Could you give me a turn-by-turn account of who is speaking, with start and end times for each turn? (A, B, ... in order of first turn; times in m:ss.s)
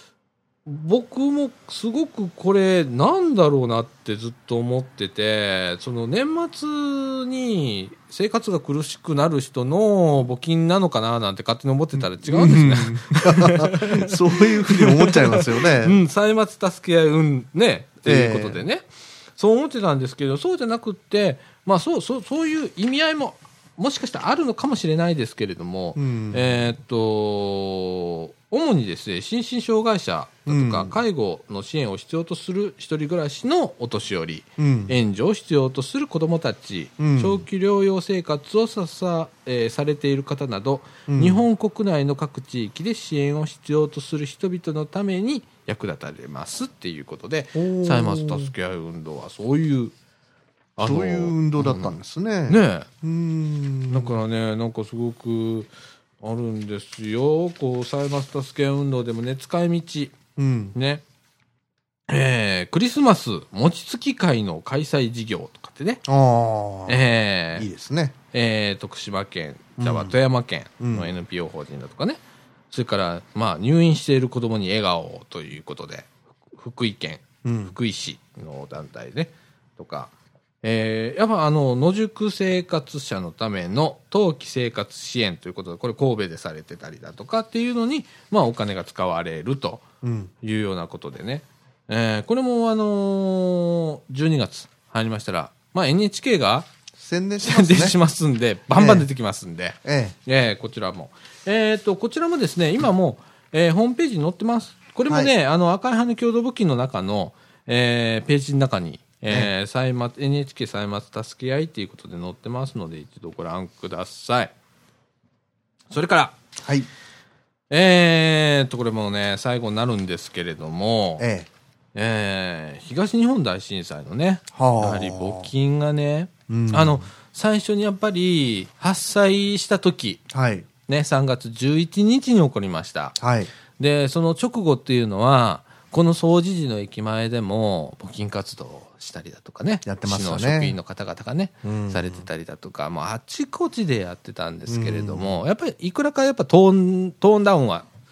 0:00.6-0:49.9 A
0:12.0-0:16.0 B
0:18.0-0:18.6 B
0:26.0-0:26.6 B
0:30.5-0:31.0 B
0:34.6-0:35.0 B
0:37.0-0:37.4 B
0:41.1-0:41.4 B
0:47.5-0:48.5 B
0:50.8-0:52.9 A
0:50.8-0:54.1 B
0:53.9-0:55.7 A
0:56.2-1:00.2 A
1:00.4-1:00.7 B
1:00.7-1:01.0 A
1:02.1-1:06.0 A
1:06.0-1:07.0 B
1:06.9-1:07.7 A
1:07.5-1:08.1 B
1:08.3-1:29.8 A
1:09.8-1:10.2 B
1:10.8-1:11.1 B
1:17.4-1:17.7 B
1:30.0-1:30.3 B
1:30.4-1:36.7 A
1:37.0-1:38.0 B
1:37.4-1:54.5 A
1:38.7-1:39.0 B
1:39.8-1:40.2 B
1:55.9-1:56.4 A
1:56.6-1:56.9 B
1:57.7-2:01.2 A
2:01.2-2:01.5 B
2:01.9-2:10.2 A
2:04.5-2:05.5 B
2:06.5-2:07.0 B
2:10.3-2:10.7 B
2:10.9-2:13.2 A
2:13.2-2:13.5 B
2:13.8-2:27.8 A
2:19.8-2:20.8 B
2:21.6-2:22.2 B
2:24.7-2:25.4 B